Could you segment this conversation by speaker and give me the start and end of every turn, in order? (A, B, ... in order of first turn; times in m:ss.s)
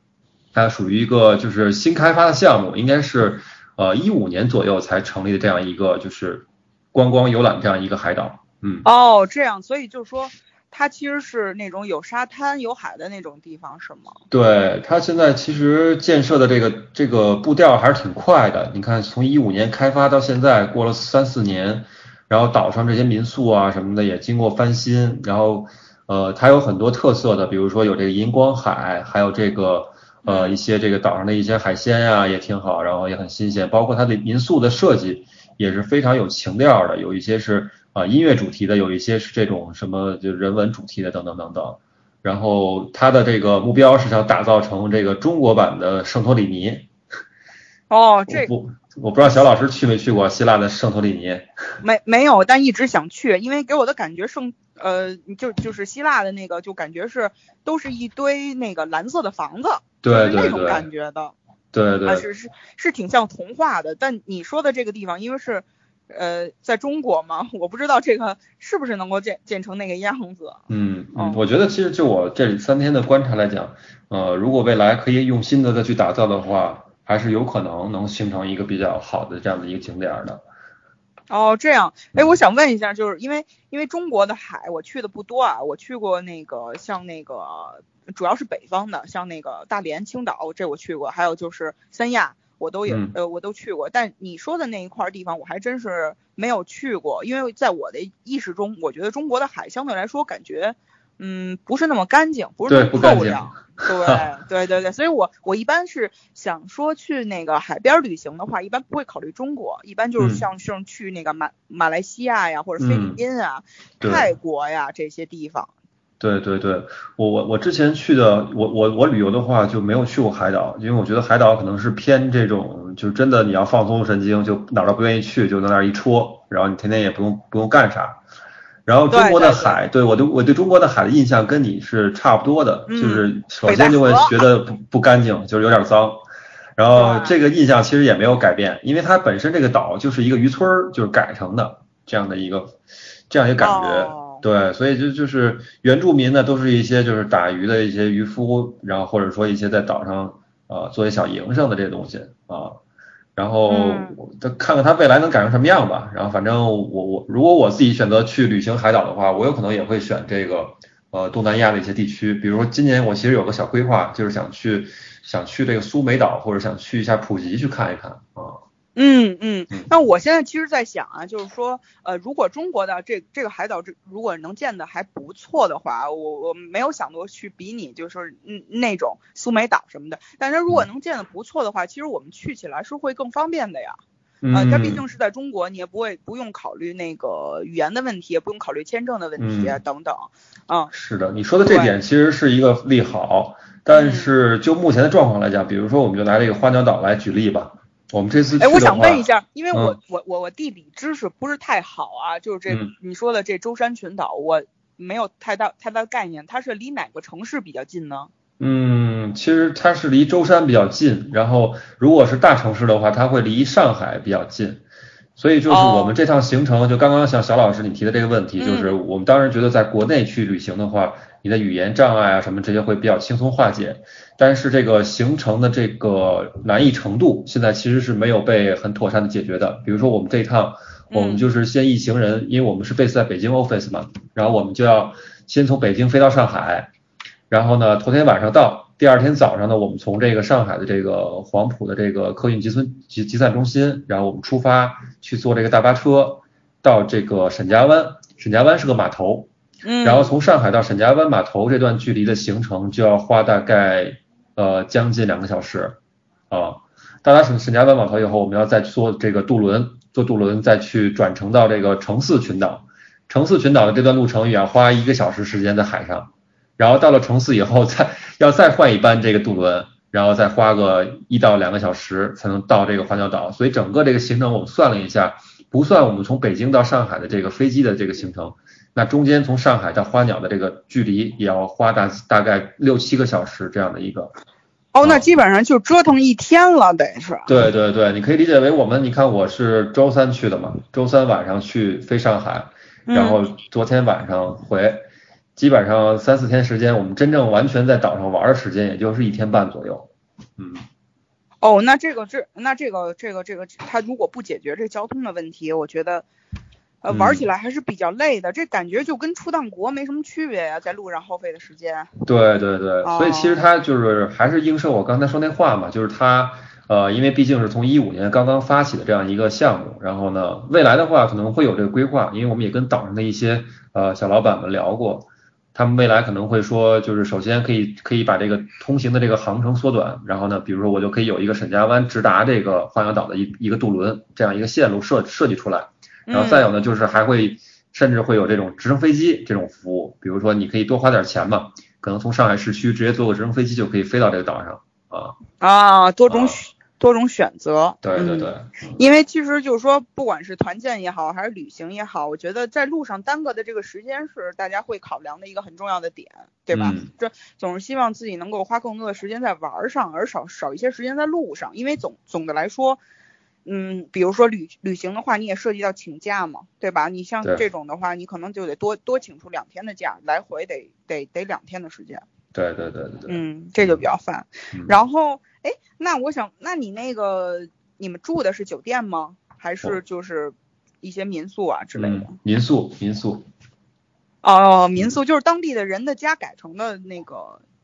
0:00.5-0:08.8 A
0:08.8-0:14.2 B
0:14.3-0:46.9 A
0:30.2-0:30.6 B
0:47.9-0:48.5 B
0:48.3-0:51.5 A
0:51.8-1:01.3 B
1:00.0-1:00.8 A
1:01.7-1:02.2 A
1:02.1-1:10.6 B
1:10.7-1:20.4 A
1:11.2-1:11.4 B
1:21.3-1:55.7 B
1:32.9-1:33.2 A
1:42.7-1:44.2 A
1:50.2-1:50.4 A
1:52.8-1:53.2 A
1:54.0-1:54.3 A
1:56.2-2:08.2 A
2:08.8-2:16.2 A
2:09.1-2:09.8 B
2:12.9-2:14.4 B
2:16.8-2:22.8 A
2:17.0-2:17.3 B
2:23.3-2:32.8 A
2:23.6-2:24.4 B
2:33.4-2:48.6 A
2:33.7-2:34.2 B
2:49.0-3:04.0 B
3:04.4-3:05.0 A
3:04.5-3:10.9 B
3:09.4-3:09.8 A
3:10.9-3:20.0 A
3:11.7-3:12.0 B
3:13.9-3:14.3 B
3:18.6-3:28.3 B
3:28.6-3:34.8 A
3:35.4-3:56.9 A
3:35.7-3:36.1 B
3:38.6-3:38.9 B
3:51.1-3:51.4 B
3:57.5-4:09.5 A
4:09.8-4:10.3 B
4:10.0-4:16.0 A
4:16.5-4:44.3 A
4:44.9-4:47.6 B
4:47.5-4:55.0 A
4:53.1-4:53.4 B
4:55.6-5:00.9 A
5:01.6-5:06.2 B
5:07.0-5:12.1 B
5:07.1-5:07.5 A
5:12.2-5:45.4 A
5:13.0-5:13.6 B
5:36.3-5:36.7 B
5:45.6-6:03.0 B
5:46.3-5:46.6 A
5:48.0-5:49.0 A
5:56.7-5:57.1 A
6:03.6-6:12.2 B
6:12.5-6:14.0 A
6:13.3-6:22.4 B
6:22.0-6:23.5 A
6:24.4-6:27.6 B